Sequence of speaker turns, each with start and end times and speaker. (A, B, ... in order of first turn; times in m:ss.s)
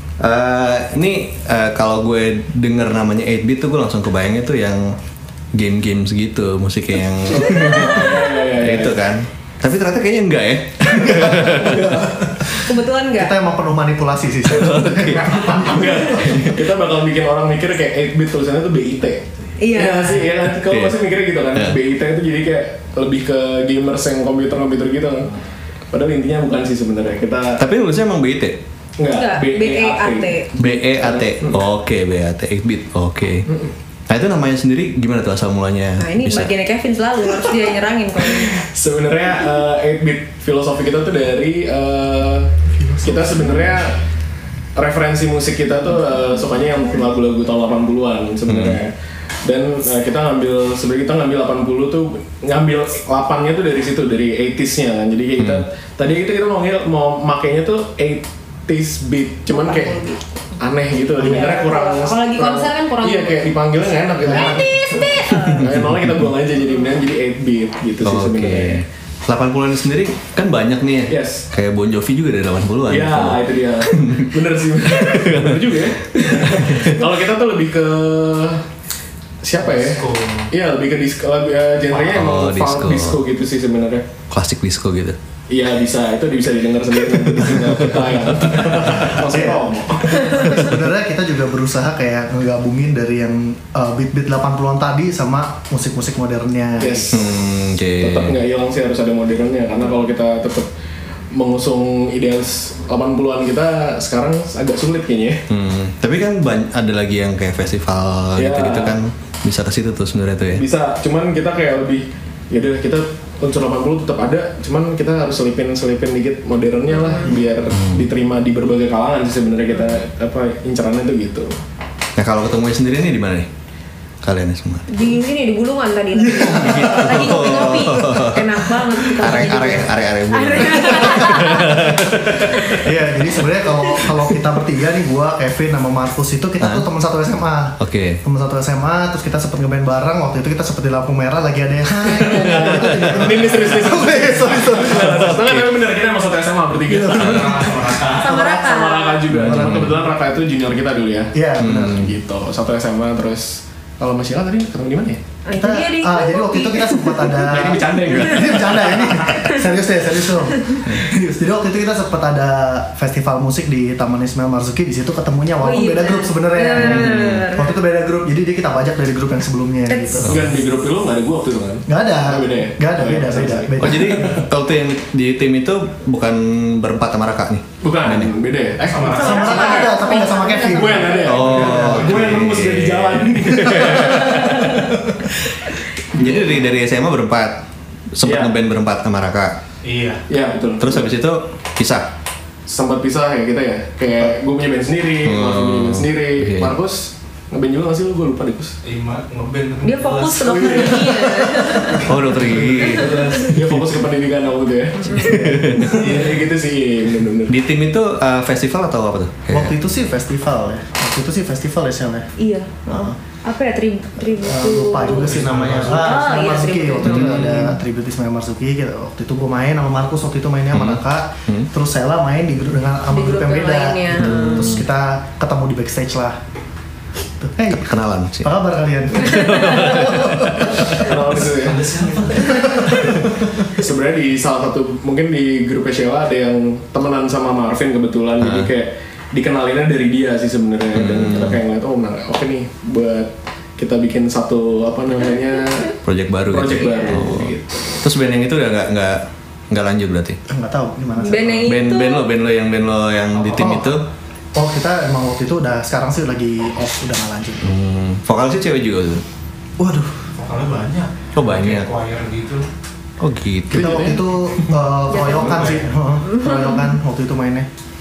0:00.2-0:04.9 A
0:05.5-0:12.4 A
0:07.3-0:09.0 B
0:11.0-0:12.3 B
0:12.7-0:13.4 C
0:13.2-0:16.4 D
0:14.5-0:16.6 A
0:15.2-0:25.3 B
0:19.6-0:20.3 C
0:20.4-0:21.0 A
0:25.9-0:27.6 B
0:27.6-0:28.6 A
0:29.0-0:31.6 B
0:29.1-0:30.5 C
0:30.6-0:33.5 A
0:33.5-0:33.7 B
0:34.1-0:36.5 A
0:36.0-0:38.6 C
0:38.2-0:42.5 B
0:42.7-0:43.8 D
0:43.0-0:44.0 B
0:44.8-0:48.9 B
0:46.1-0:47.1 C
0:48.5-0:48.8 A
0:49.4-1:00.0 B
0:55.4-0:55.6 A
0:59.5-1:00.2 C
1:00.6-1:08.8 B
1:01.2-1:03.5 C
1:04.2-1:05.1 D
1:04.2-1:05.6 C
1:05.4-1:06.3 A
1:08.0-1:14.3 A
1:11.1-1:11.4 B
1:12.9-1:18.6 B
1:14.8-1:17.0 A
1:19.4-1:24.1 B
1:19.7-1:20.5 E
1:21.9-1:23.2 A
1:24.3-1:25.2 A
1:25.5-1:30.5 B
1:27.3-1:29.1 A
1:29.2-1:37.1 D
1:36.8-1:37.3 B
1:37.1-1:38.4 A
1:38.0-1:40.7 B
1:41.3-1:45.4 B
1:45.5-1:50.6 A
1:48.4-1:49.0 B
1:50.5-2:01.6 B
1:56.9-1:57.3 C
1:57.7-1:58.0 A
2:02.2-2:03.5 A
2:04.2-2:04.9 A
2:04.9-2:12.8 C
2:06.4-2:06.8 D
2:06.4-2:12.5 A
2:12.7-2:25.4 D
2:13.6-2:14.0 C
2:16.6-2:16.8 A
2:17.8-2:18.2 A
2:22.1-2:35.2 B
2:22.6-2:23.2 A
2:24.9-2:25.8 A
2:26.9-2:28.3 E
2:28.2-2:28.7 D
2:28.2-2:29.2 C
2:29.3-2:30.0 A
2:29.3-2:30.0 D
2:31.3-2:32.1 D
2:31.6-2:32.1 A
2:35.4-2:37.5 C
2:35.5-2:50.3 D
2:37.4-2:39.3 B
2:45.6-2:47.7 C
2:46.8-2:47.4 A
2:49.9-2:50.2 C
2:50.2-2:54.4 B
2:50.2-2:50.5 A
2:51.9-2:54.4 D
2:53.8-2:58.3 A
2:57.8-3:05.2 B
2:58.9-2:59.8 E
2:59.1-3:01.2 C
2:59.2-3:02.1 D
3:01.2-3:04.5 A
3:01.4-3:02.4 E
3:06.1-3:06.7 B
3:06.1-3:07.6 A
3:08.1-3:09.5 A
3:08.2-3:08.5 B
3:09.8-3:10.2 E
3:10.3-3:11.1 B
3:10.8-3:12.0 A
3:12.7-3:18.8 B
3:15.2-3:16.8 A
3:18.8-3:21.0 E
3:19.8-3:22.1 C
3:20.5-3:22.0 D
3:22.0-3:23.8 A
3:22.3-3:23.5 E
3:23.1-3:23.5 C
3:23.1-3:27.5 B
3:25.2-3:25.6 D
3:25.2-3:26.2 A
3:27.5-3:29.7 A
3:29.5-3:32.3 D
3:32.4-3:37.6 C
3:32.9-3:33.2 D
3:34.4-3:46.4 D
3:35.2-3:36.1 E
3:37.0-3:37.8 A
3:40.7-3:41.7 A
3:43.1-3:44.8 C
3:44.1-3:44.9 A
3:47.4-3:50.9 D
3:47.9-3:48.5 A
3:49.2-3:51.0 A
3:50.9-3:51.9 B
3:51.5-3:53.2 E
3:52.3-3:53.3 D
3:53.7-4:05.9 B
3:58.4-3:58.7 A
4:00.9-4:01.6 A
4:06.0-4:10.4 A
4:06.5-4:07.9 B
4:06.8-4:07.2 C
4:10.5-4:11.7 D
4:11.2-4:12.3 C
4:11.6-4:14.0 A
4:13.3-4:13.8 E
4:13.6-4:13.9 D
4:14.5-4:17.7 D
4:17.6-4:19.2 A
4:19.8-4:20.2 D
4:20.3-4:22.6 E
4:21.4-4:21.9 A
4:23.2-4:24.1 A
4:23.7-4:27.7 D
4:23.7-4:24.8 B
4:25.1-4:25.6 C
4:25.4-4:25.8 B
4:25.4-4:25.8 E
4:26.2-4:26.9 C